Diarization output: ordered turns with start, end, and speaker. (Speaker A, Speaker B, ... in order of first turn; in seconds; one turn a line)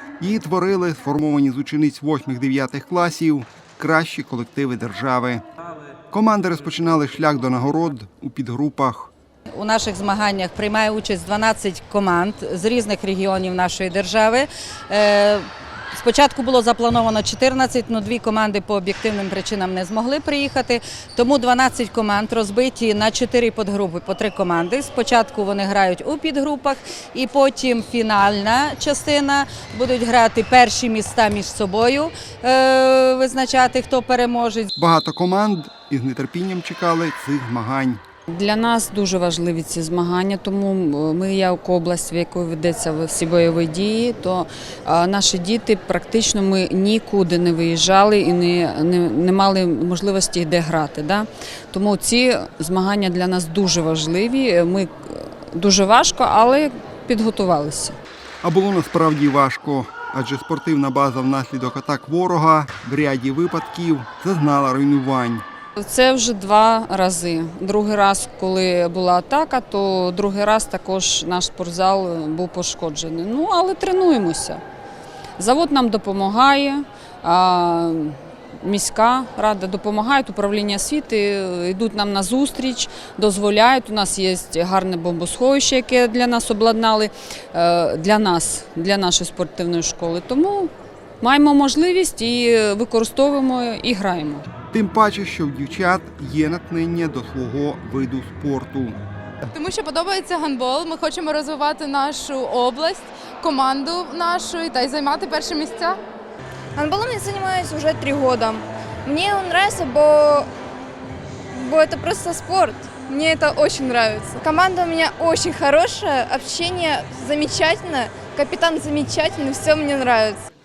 Speaker A: 0.2-5.4
Speaker A: 6.1-9.1
Speaker B: 9.5-34.7
Speaker A: 34.7-38.0
Speaker C: 38.3-58.0
Speaker A: 58.4-65.4
Speaker C: 65.8-74.6
Speaker C: 75.4-94.5
Speaker A: 94.7-99.0
Speaker D: 99.5-106.0
Speaker E: 106.8-110.5
Speaker E: 111.5-120.4